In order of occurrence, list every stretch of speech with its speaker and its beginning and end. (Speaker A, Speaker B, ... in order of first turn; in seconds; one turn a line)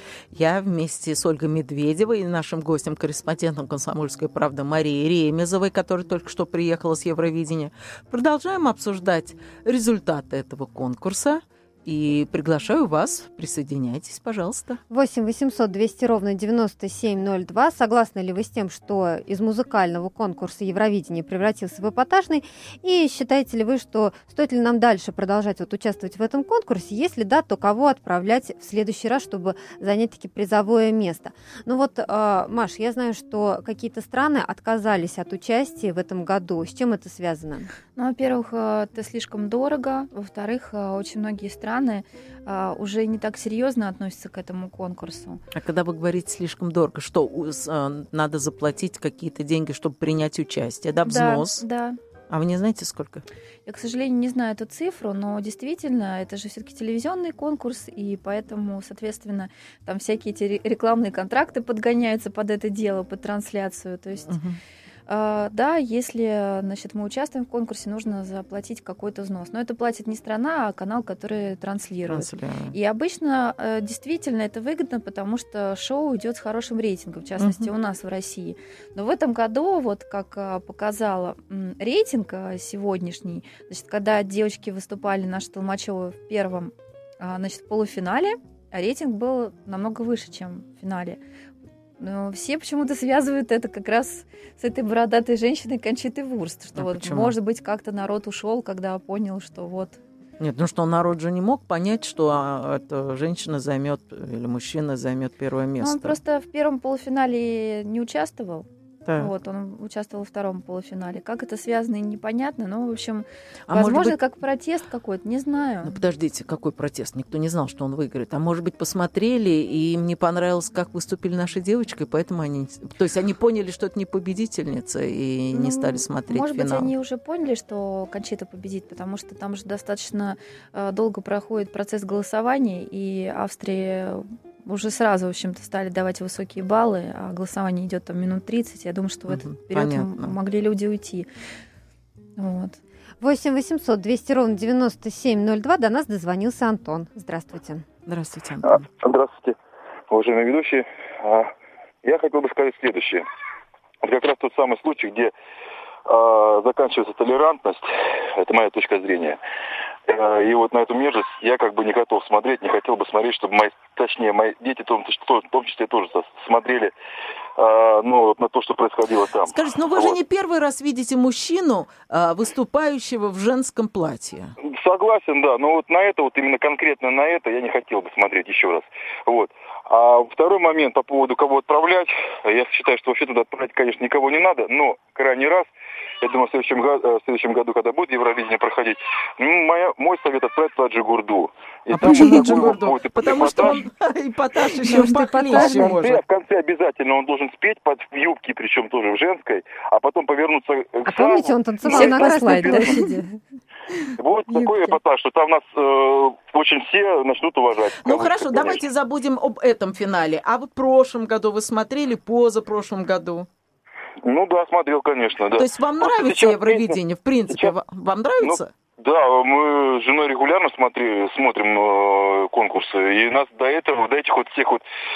Speaker A: 0.3-14.8
Speaker B: 14.9-37.7
Speaker C: 38.0-45.4
Speaker A: 45.5-51.6
Speaker C: 51.0-52.0
Speaker A: 52.3-53.2
Speaker C: 53.6-64.3
Speaker A: 64.3-64.6
Speaker C: 65.1-91.2
Speaker A: 72.1-72.7
Speaker A: 77.4-77.7
Speaker C: 92.0-100.0
Speaker A: 96.8-97.3
Speaker A: 100.4-106.2
Speaker C: 105.8-108.7
Speaker A: 109.0-109.3
Speaker C: 109.2-116.0
Speaker A: 113.7-114.2
Speaker A: 115.8-126.9
Speaker C: 125.5-141.3
Speaker A: 139.3-140.3
Speaker C: 142.4-142.8
Speaker B: 143.2-147.8
Speaker A: 148.1-148.9
Speaker D: 148.6-149.6
Speaker D: 150.1-151.5
Speaker D: 152.0-153.2
Speaker D: 154.0-155.3
Speaker D: 156.1-159.4
Speaker D: 160.1-166.9
Speaker D: 167.6-170.2
Speaker A: 169.4-174.5
Speaker D: 174.6-185.7
Speaker D: 186.2-193.8
Speaker A: 191.9-196.2
Speaker B: 194.8-196.0
Speaker D: 195.4-202.9
Speaker B: 201.1-203.4
Speaker C: 201.8-203.0
Speaker D: 204.2-208.8
Speaker B: 204.5-204.9
Speaker A: 208.0-213.5
Speaker D: 214.2-217.0
Speaker A: 215.6-218.7
Speaker D: 217.5-217.7
Speaker D: 218.4-224.8